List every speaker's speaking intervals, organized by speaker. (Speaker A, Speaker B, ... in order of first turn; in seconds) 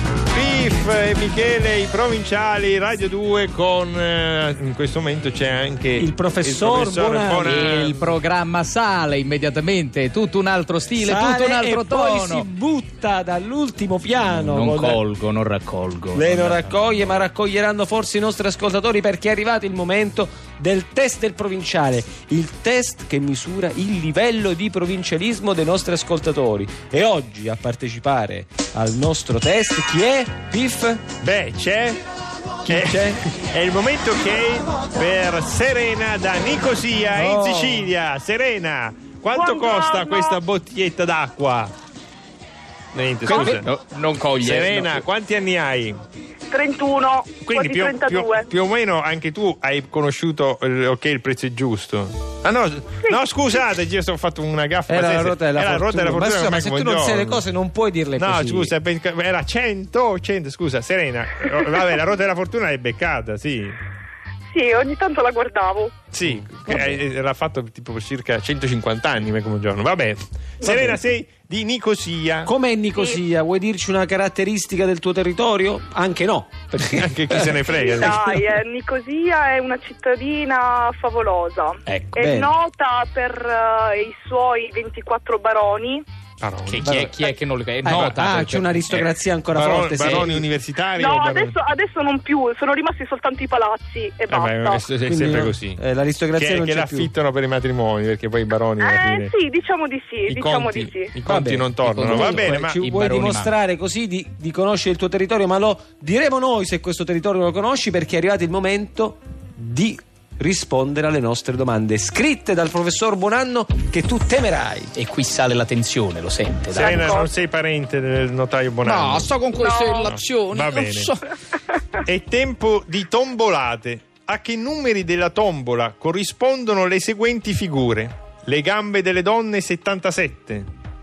Speaker A: 0.3-8.2, 31.2-32.0, 32.6-41.7, 42.9-43.7, 44.4-46.0, 47.5-57.4, 58.2-63.8, 66.1-72.5, 77.0-78.3, 86.4-86.8, 87.9-88.2, 88.9-91.6, 94.3-95.8, 96.4-99.3, 100.3-102.8, 116.7-119.4, 120.0-121.1, 122.0-130.7
Speaker B: 6.0-7.8, 11.0-15.0, 16.1-31.1, 32.6-33.2, 37.1-37.9, 43.3-43.6, 54.9-58.7, 66.3-67.0, 72.5-78.2, 82.1-82.5, 86.8-87.1, 87.8-90.5, 95.0-97.1, 101.3-114.9
Speaker C: 7.5-12.5, 14.3-16.8, 43.3-45.0, 81.9-82.2, 86.7-89.0, 90.0-90.3, 101.6-103.5, 114.9-117.1, 118.8-121.3
Speaker D: 39.3-40.4, 46.5-48.5, 64.5-66.0, 77.7-86.0, 91.0-94.8, 98.8-101.1, 116.7-117.3, 119.5-120.1